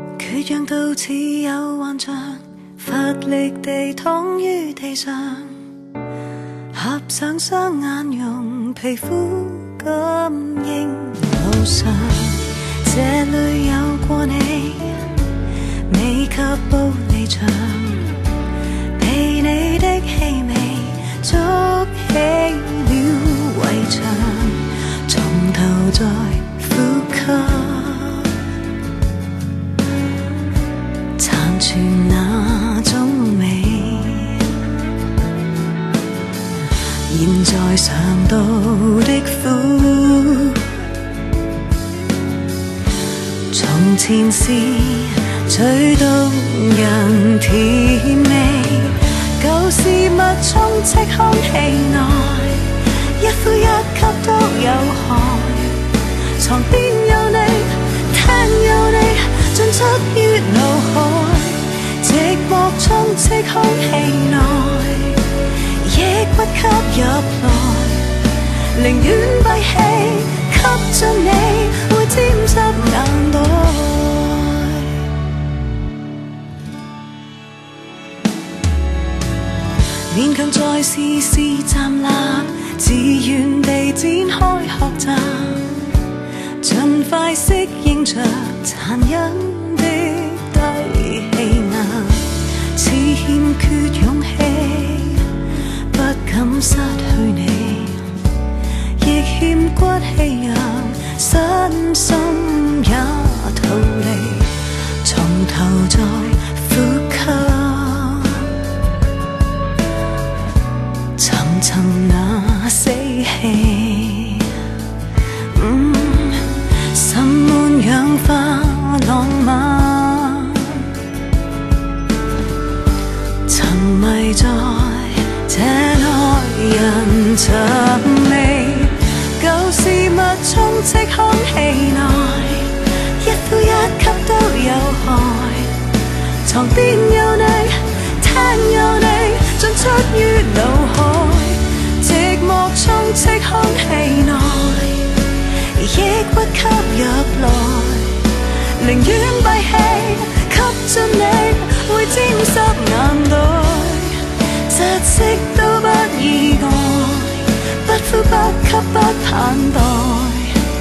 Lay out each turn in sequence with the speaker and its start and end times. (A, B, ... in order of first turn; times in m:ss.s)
0:00.2-0:05.6 A
0:06.7-0:15.1 A
0:15.9-0:18.1 A
0:19.0-0:28.3 A
0:31.2-0:34.5 A
0:37.1-0:40.6 A
0:43.5-0:55.8 A
0:56.4-1:05.2 A
1:05.8-1:08.1 A
1:08.7-1:14.9 A
1:20.1-1:25.7 A
1:26.6-1:35.3 A
1:35.9-1:38.1 A
1:39.0-1:48.5 A
1:51.2-1:54.5 A
1:55.5-2:00.9 A
2:03.5-2:15.8 A
2:16.4-2:25.1 A
2:25.7-2:40.6 A